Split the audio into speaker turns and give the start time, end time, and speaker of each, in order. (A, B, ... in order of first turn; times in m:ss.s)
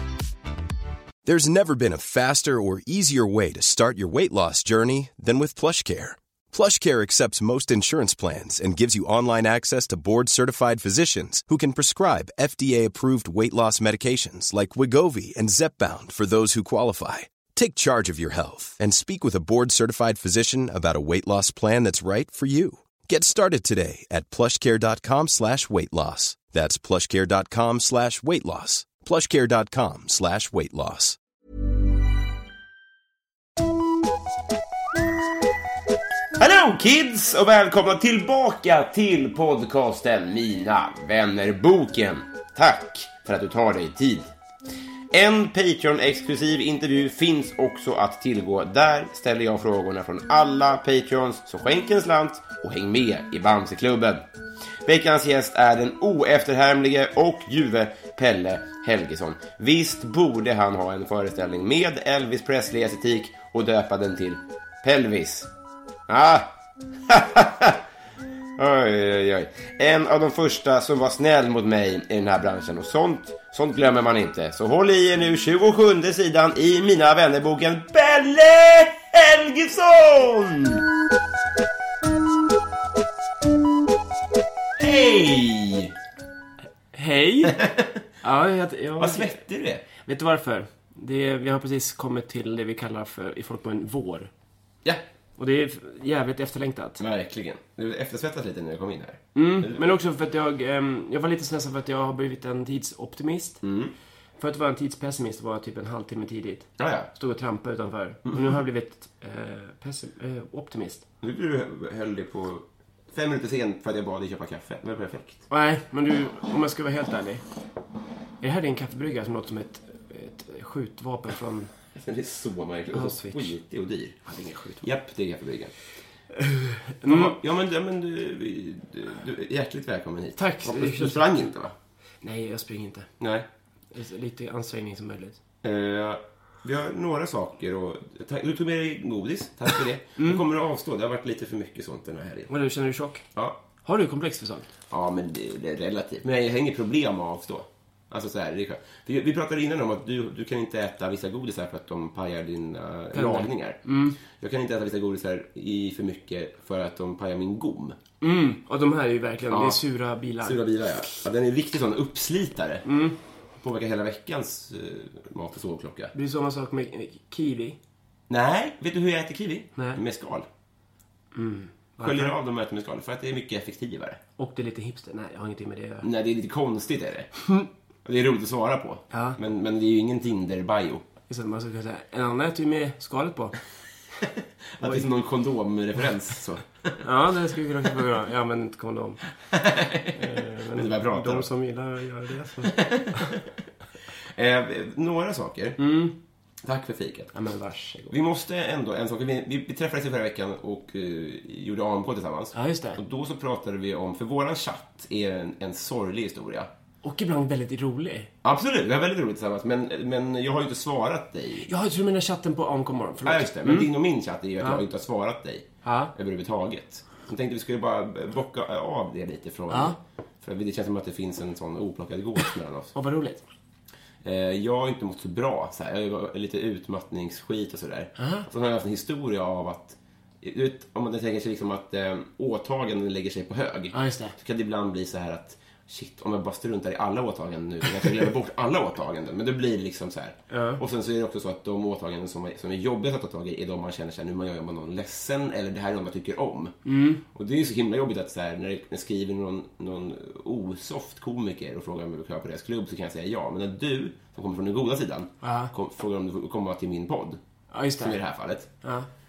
0:01.2-0:31.2 A
0:36.4-0:44.2 B
0:45.1-0:54.3 B
0:54.8-1:05.5 B
1:06.1-1:06.5 B
1:07.1-1:07.8 B
1:08.6-1:20.8 B
1:24.8-1:25.9 B
1:26.9-1:27.7 C
1:27.4-1:28.0 B
1:28.2-1:34.3 C
1:29.0-1:29.8 B
1:35.4-1:37.0 C
1:37.0-1:40.0 B
1:39.4-1:43.6 C
1:43.6-1:43.9 B
1:44.4-1:51.0 C
1:46.8-1:47.1 B
1:51.2-1:55.4 B
1:55.5-1:57.4 C
1:58.4-2:01.7 C
2:01.9-2:04.2 B
2:02.9-2:03.5 C
2:04.3-2:04.8 C
2:04.8-2:05.7 B
2:06.4-2:07.4 C
2:07.0-2:11.8 B
2:10.4-2:11.3 C
2:12.2-2:13.1 C
2:13.2-2:13.5 B
2:13.9-2:15.4 C
2:15.6-2:22.5 B
2:22.5-2:23.3 C
2:23.8-2:24.7 C
2:24.9-2:38.0 B
2:33.1-2:34.2 C
2:38.2-2:40.6 C
2:39.5-2:39.8 B
2:40.4-2:42.9 B
2:42.8-2:43.2 C
2:43.6-2:46.1 B
2:46.1-2:47.8 C
2:48.3-2:50.5 B
2:49.8-2:50.0 C
2:51.3-2:52.4 C
2:52.0-2:54.2 B
2:54.4-2:56.1 C
2:56.0-2:57.3 B
2:58.0-3:01.1 B
2:59.1-2:59.4 C
3:01.3-3:03.6 C
3:04.2-3:07.0 B
3:04.8-3:05.1 C
3:07.0-3:09.2 C
3:09.5-3:11.5 B
3:10.1-3:13.4 C
3:12.6-3:13.6 B
3:14.3-3:15.8 B
3:15.8-3:16.2 C
3:16.6-3:17.3 B
3:17.3-3:18.2 C
3:18.1-3:26.7 B
3:22.5-3:23.0 C
3:27.0-3:28.3 C
3:28.4-3:31.7 B
3:31.6-3:33.9 C
3:33.2-3:42.9 B
3:35.8-3:36.1 C
3:39.7-3:40.0 C
3:42.9-3:43.4 C
3:44.2-4:06.8 B
3:48.2-3:48.5 C
3:53.9-3:54.4 C
4:00.5-4:00.8 C
4:06.8-4:07.2 C
4:07.3-4:17.4 B
4:15.4-4:15.7 C
4:17.7-4:18.2 C
4:18.0-4:18.7 B
4:18.8-4:19.1 C